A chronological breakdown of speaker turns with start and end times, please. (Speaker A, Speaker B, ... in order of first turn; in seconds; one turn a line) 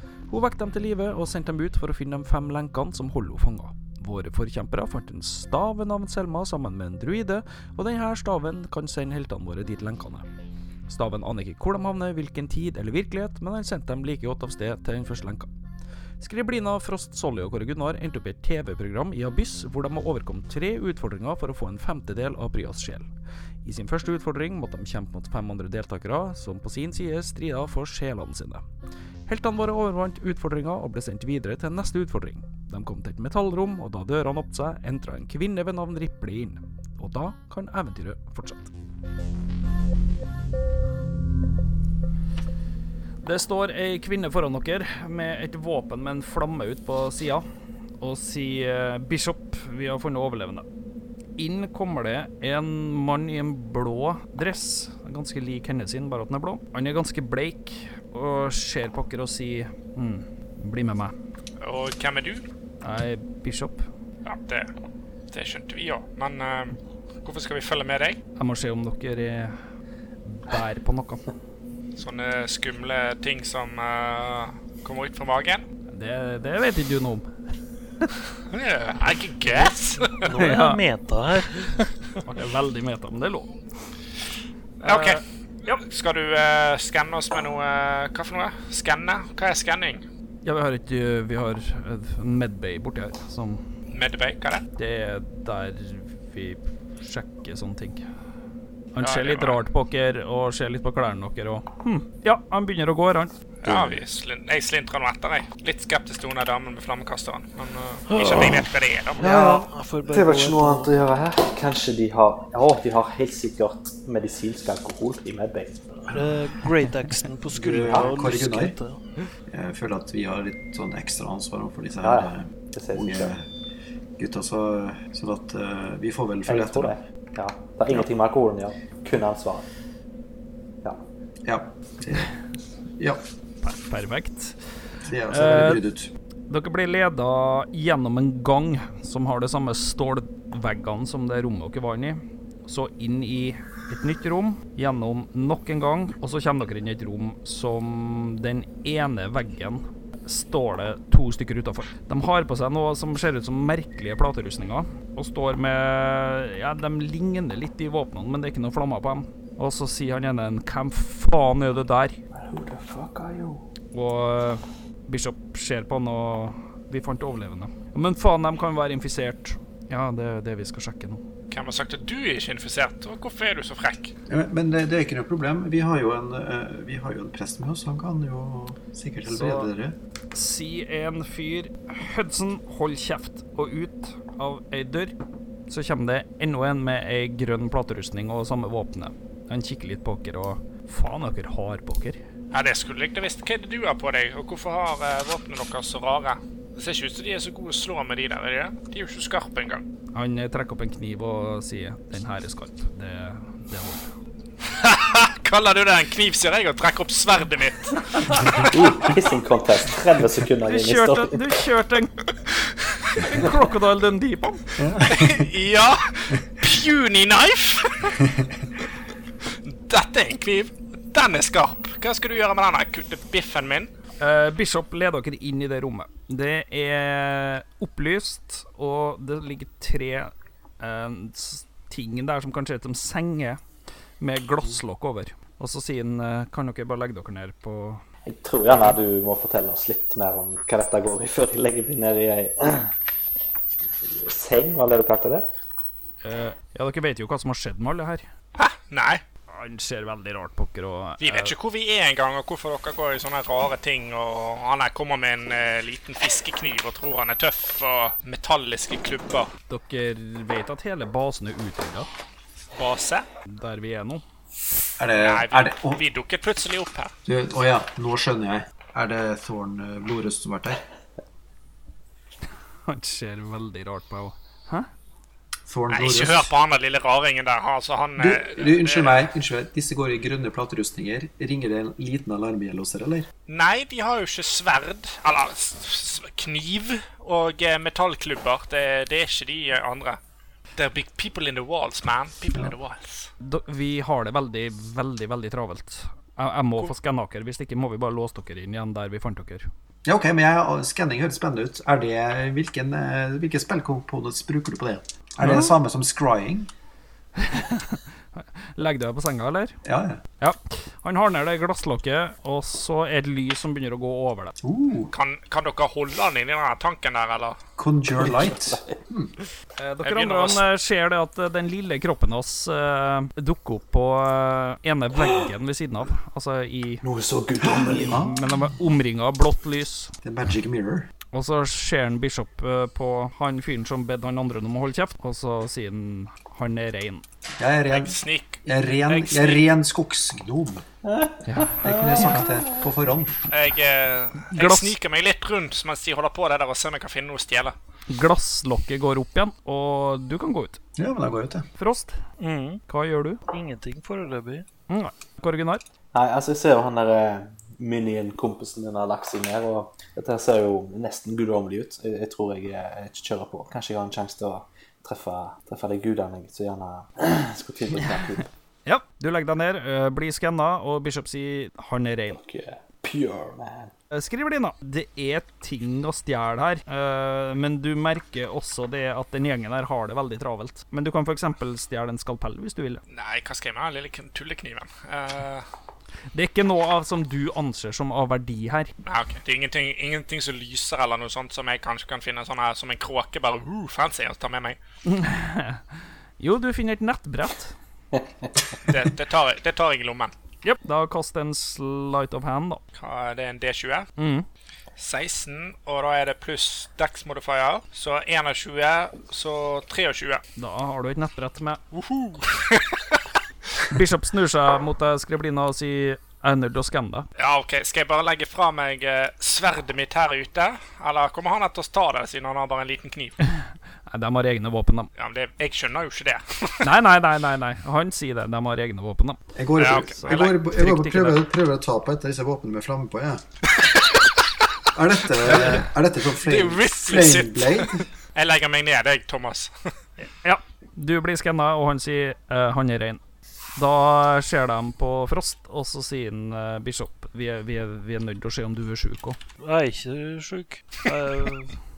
Speaker A: 0.3-10.3
Speaker A: 10.9-15.5
Speaker A: 16.2-23.1
Speaker A: 23.6-28.6
Speaker A: 29.3-38.7
Speaker A: 43.2-47.4
Speaker A: 48.0-50.6
Speaker A: 51.4-61.1
Speaker B: 61.6-62.4
Speaker A: 62.8-63.9
Speaker B: 64.2-64.7
Speaker B: 65.3-68.2
Speaker A: 68.4-69.5
Speaker A: 70.2-71.2
Speaker B: 72.0-75.6
Speaker A: 75.9-77.3
Speaker B: 78.5-80.3
Speaker C: 80.2-81.9
Speaker A: 80.3-80.8
Speaker A: 82.2-83.5
Speaker A: 84.8-85.8
Speaker B: 84.8-90.0
Speaker A: 90.4-93.6
Speaker B: 93.9-94.7
Speaker A: 94.8-98.0
Speaker A: 98.9-104.0
Speaker B: 99.0-99.6
Speaker B: 103.6-109.2
Speaker C: 108.1-108.6
Speaker C: 109.2-111.0
Speaker D: 109.2-116.2
Speaker C: 116.1-119.0
Speaker E: 117.5-118.8
Speaker D: 117.7-118.1
Speaker E: 119.5-123.5
Speaker D: 122.0-123.3
Speaker E: 124.2-127.0
Speaker D: 126.5-129.6
Speaker E: 131.4-132.3
Speaker E: 133.0-133.2
Speaker A: 133.6-134.6
Speaker E: 135.0-136.1
Speaker A: 135.3-135.8
Speaker A: 136.5-162.2
Speaker D: 162.3-163.6
Speaker A: 163.9-171.2
Speaker B: 171.5-174.1
Speaker E: 174.3-180.0
Speaker A: 179.2-179.7
Speaker A: 180.3-185.1
Speaker A: 185.7-192.2
Speaker B: 192.5-199.8
Speaker A: 200.1-204.1
Speaker B: 204.7-208.6
Speaker D: 208.7-211.6
Speaker A: 210.6-212.1
Speaker A: 213.2-214.7
Speaker E: 214.8-215.4
Speaker B: 215.0-218.3
Speaker B: 219.6-223.9
Speaker A: 224.2-233.6
Speaker A: 234.2-238.0
Speaker D: 238.3-242.9
Speaker D: 244.1-245.5
Speaker A: 246.2-248.2
Speaker B: 248.6-249.2
Speaker A: 249.5-251.5
Speaker B: 251.2-259.5
Speaker A: 259.7-262.1
Speaker B: 262.7-263.2
Speaker A: 263.5-264.2
Speaker E: 265.0-266.0
Speaker B: 265.1-267.1
Speaker E: 267.2-270.8
Speaker A: 272.9-274.9
Speaker E: 275.7-276.5
Speaker B: 275.9-279.3
Speaker E: 278.2-283.3
Speaker B: 283.5-290.2
Speaker B: 290.8-293.3
Speaker A: 293.4-299.7
Speaker E: 300.0-306.7
Speaker A: 305.4-305.7
Speaker A: 307.4-309.8
Speaker E: 309.8-310.2
Speaker A: 310.4-314.5
Speaker E: 314.6-315.1
Speaker B: 315.1-317.6
Speaker E: 317.8-319.3
Speaker D: 318.2-318.8
Speaker A: 319.8-327.0
Speaker B: 320.0-320.6
Speaker D: 327.0-328.2
Speaker E: 327.6-328.6
Speaker A: 328.0-330.1
Speaker E: 330.2-331.1
Speaker A: 331.3-337.2
Speaker E: 337.6-340.8
Speaker B: 337.9-339.6
Speaker D: 341.0-342.8
Speaker A: 341.4-341.8
Speaker E: 341.8-343.4
Speaker B: 343.5-347.7
Speaker A: 344.5-344.9
Speaker A: 348.1-350.8
Speaker E: 351.0-351.7
Speaker A: 351.8-352.2
Speaker C: 352.4-352.8
Speaker A: 352.9-353.4
Speaker C: 353.5-354.6
Speaker A: 354.9-355.8
Speaker D: 356.1-368.5
Speaker A: 368.9-372.4
Speaker D: 372.3-373.9
Speaker A: 374.1-383.0
Speaker B: 383.1-385.6
Speaker A: 386.3-388.9
Speaker B: 389.1-394.8
Speaker A: 395.0-397.7
Speaker D: 398.1-398.4
Speaker B: 398.9-400.3
Speaker A: 400.6-402.8
Speaker B: 402.9-404.1
Speaker A: 404.2-404.4
Speaker B: 405.0-410.4
Speaker A: 410.6-411.8
Speaker B: 411.9-413.2
Speaker A: 413.8-417.3
Speaker B: 417.4-423.4
Speaker A: 423.4-425.1
Speaker B: 425.2-426.9
Speaker A: 426.8-429.4
Speaker E: 429.5-433.4
Speaker B: 429.8-430.6
Speaker A: 430.1-431.4
Speaker B: 433.8-434.1
Speaker E: 434.9-438.1
Speaker B: 435.4-439.7
Speaker A: 440.2-443.2
Speaker A: 443.8-449.4
Speaker C: 449.6-451.8